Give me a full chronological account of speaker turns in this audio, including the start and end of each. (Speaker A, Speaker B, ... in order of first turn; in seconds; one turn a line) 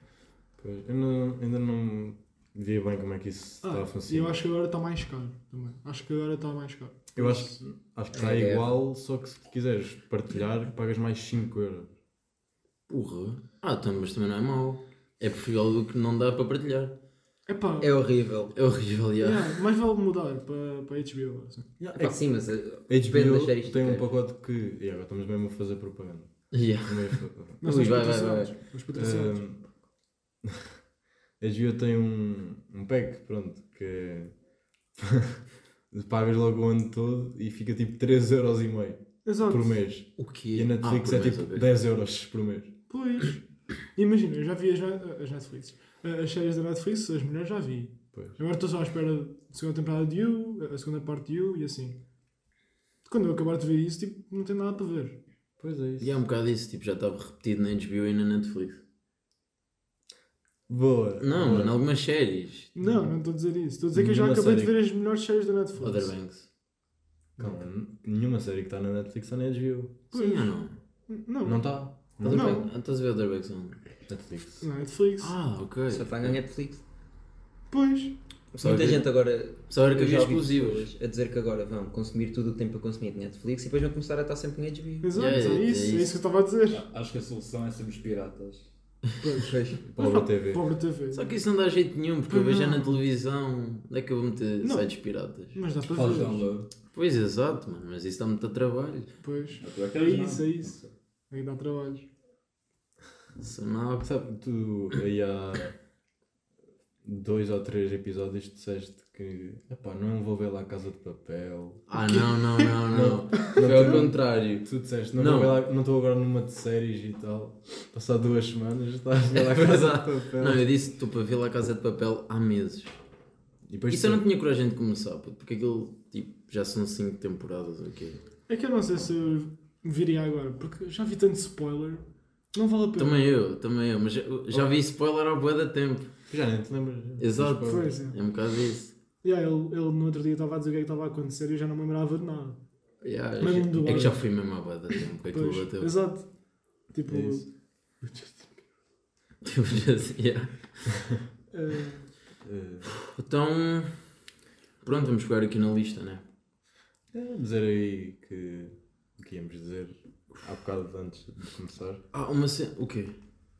Speaker A: 0.6-4.4
Speaker B: 3.6-7.6
Speaker A: 7.1-11.9
Speaker C: 8.1-8.8
Speaker D: 12.9-16.9
Speaker B: 17.5-18.0
Speaker C: 17.8-18.5
Speaker D: 18.5-19.5
Speaker B: 19.2-21.6
Speaker A: 21.8-22.2
Speaker C: 21.9-24.1
Speaker A: 22.9-27.6
Speaker D: 26.5-28.6
Speaker B: 27.6-29.4
Speaker A: 28.9-29.6
Speaker A: 30.4-30.7
Speaker A: 31.4-34.3
Speaker A: 35.0-42.7
Speaker B: 39.2-39.7
Speaker D: 40.2-41.7
Speaker B: 42.9-43.4
Speaker B: 43.9-52.0
Speaker B: 53.0-55.2
Speaker A: 55.6-56.2
Speaker D: 56.0-58.8
Speaker A: 60.7-61.8
Speaker D: 61.2-62.7
Speaker B: 62.7-66.1
Speaker A: 63.9-64.8
Speaker D: 65.8-66.5
Speaker A: 67.4-70.0
Speaker B: 70.1-72.7
Speaker D: 70.1-70.8
Speaker A: 71.4-72.7
Speaker D: 72.2-73.8
Speaker A: 74.1-74.6
Speaker B: 74.6-75.3
Speaker D: 75.2-76.3
Speaker C: 75.9-76.8
Speaker B: 77.7-78.1
Speaker C: 78.5-85.1
Speaker D: 78.6-79.1
Speaker D: 79.7-80.9
Speaker B: 85.0-86.8
Speaker D: 85.1-86.1
Speaker E: 86.7-88.6
Speaker B: 89.2-91.4
Speaker C: 89.5-89.8
Speaker A: 89.8-90.6
Speaker D: 91.1-95.6
Speaker B: 92.3-93.0
Speaker B: 94.6-94.9
Speaker B: 95.5-96.5
Speaker E: 95.9-96.7
Speaker D: 96.9-99.1
Speaker B: 99.2-100.8
Speaker E: 99.6-100.9
Speaker B: 101.3-102.1
Speaker D: 103.4-104.1
Speaker A: 104.0-105.7
Speaker A: 107.0-111.8
Speaker D: 111.9-115.6
Speaker B: 112.0-112.7
Speaker A: 112.9-120.7
Speaker D: 119.3-122.9
Speaker A: 123.7-124.2
Speaker D: 123.9-128.2
Speaker B: 128.5-133.2
Speaker D: 133.0-136.1
Speaker A: 136.3-137.9
Speaker D: 137.2-138.9
Speaker B: 137.6-138.2
Speaker B: 139.2-142.6
Speaker D: 143.0-145.9
Speaker B: 143.4-144.2
Speaker B: 145.3-146.3
Speaker B: 146.9-147.4
Speaker A: 147.1-147.4
Speaker A: 148.0-148.5
Speaker D: 149.4-150.9
Speaker B: 151.5-152.1
Speaker A: 152.4-152.9
Speaker D: 153.0-154.0
Speaker D: 154.8-156.2
Speaker A: 157.1-162.0
Speaker D: 162.1-163.1